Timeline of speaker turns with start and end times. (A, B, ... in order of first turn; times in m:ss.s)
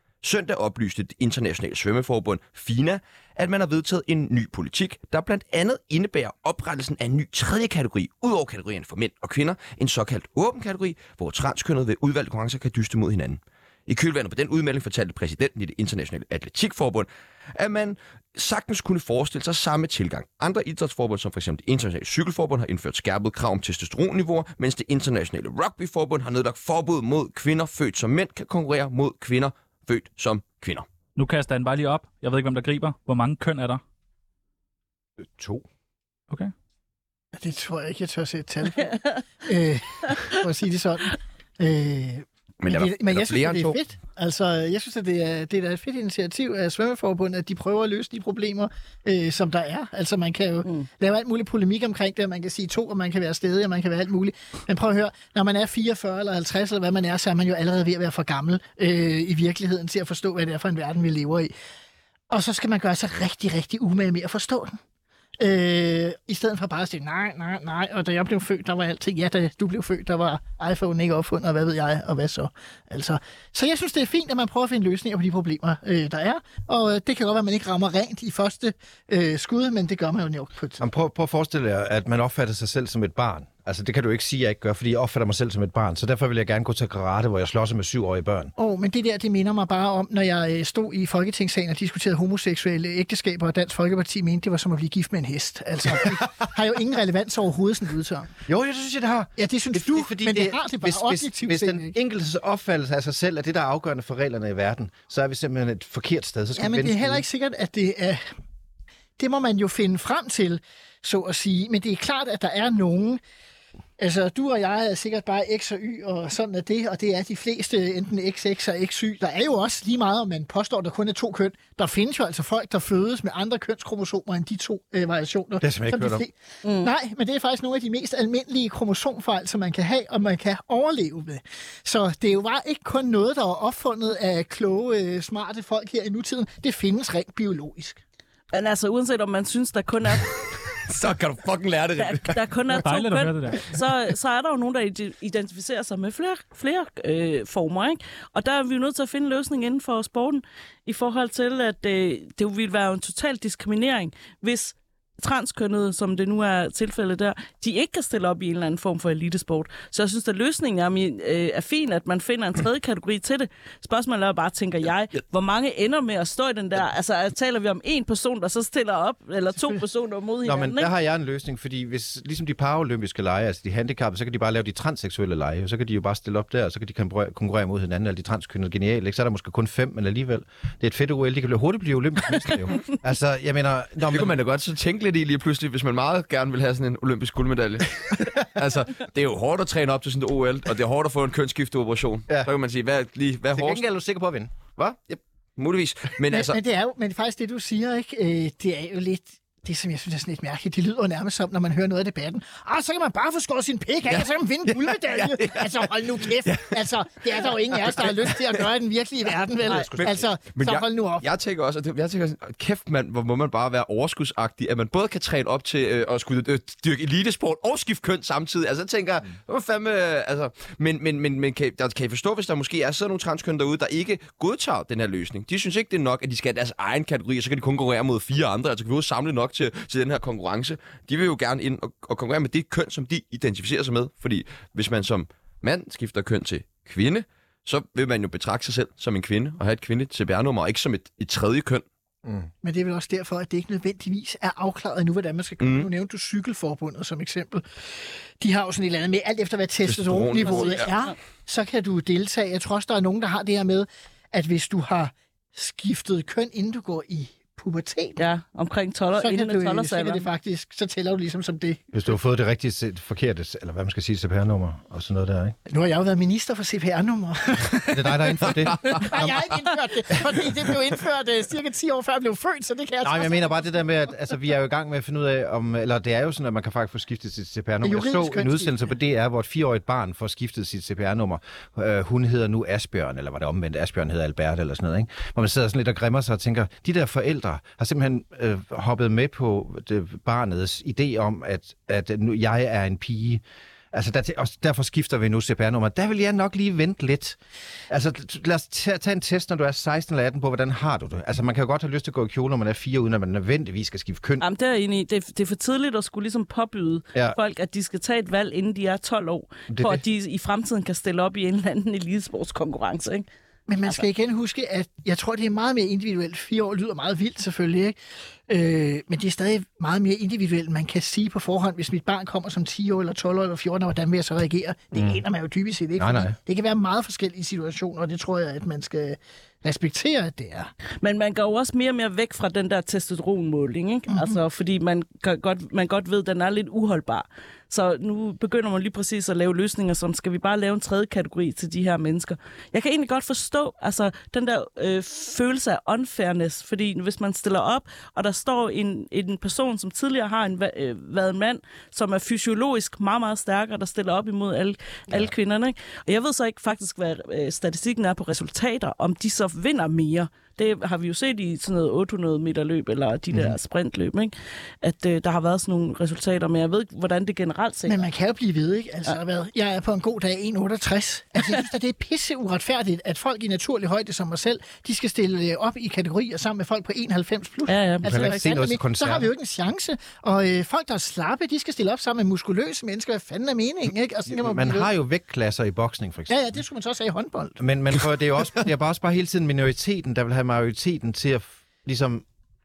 0:00.2-0:30.8 A
0:31.2-0:33.8 B
0:35.3-0:35.6 C
0:37.4-1:01.5 D
0:42.6-0:43.8 A
1:02.3-1:04.8 D
1:05.4-1:20.8 D
1:20.8-1:28.5 C
1:28.6-1:38.3 D
1:38.5-1:47.2 C
1:39.4-1:41.9 D
1:46.6-1:48.2 D
1:49.2-1:53.2 D
1:54.0-2:18.0 D
2:05.6-2:06.2 C
2:06.6-2:06.9 E
2:18.5-2:20.3 E
2:20.7-2:22.4 A
2:22.0-2:50.9 E
2:22.8-2:23.7 B
2:50.4-3:04.4 C
3:04.1-3:13.8 A
3:13.5-3:14.5 C
3:14.8-3:16.6 A
3:16.3-3:31.3 D
3:24.1-3:26.8 A
3:27.7-3:28.6 A
3:29.6-4:01.8 A
3:29.7-3:30.1 C
4:02.2-4:02.5 C
4:02.6-4:18.2 D
4:05.6-4:05.9 A
4:09.8-4:10.9 A
4:10.4-4:11.1 E
4:18.2-4:20.3 E
4:19.2-4:21.8 D
4:21.9-4:25.6 C
4:25.7-4:33.5 D
4:27.7-4:30.4 C
4:33.0-4:57.4 C
4:37.8-4:38.8 D
4:57.9-5:04.4 C
5:04.4-5:13.2 E
5:09.7-5:10.0 C
5:13.7-5:18.0 D
5:18.5-5:30.7 D
5:26.0-5:26.3 C
5:31.0-6:08.0 E
5:34.1-5:34.3 D
6:07.9-6:24.9 D
6:17.7-6:18.4 E
6:18.0-6:19.3 C
6:24.3-6:26.5 C
6:26.3-6:27.6 D
6:27.6-6:32.2 C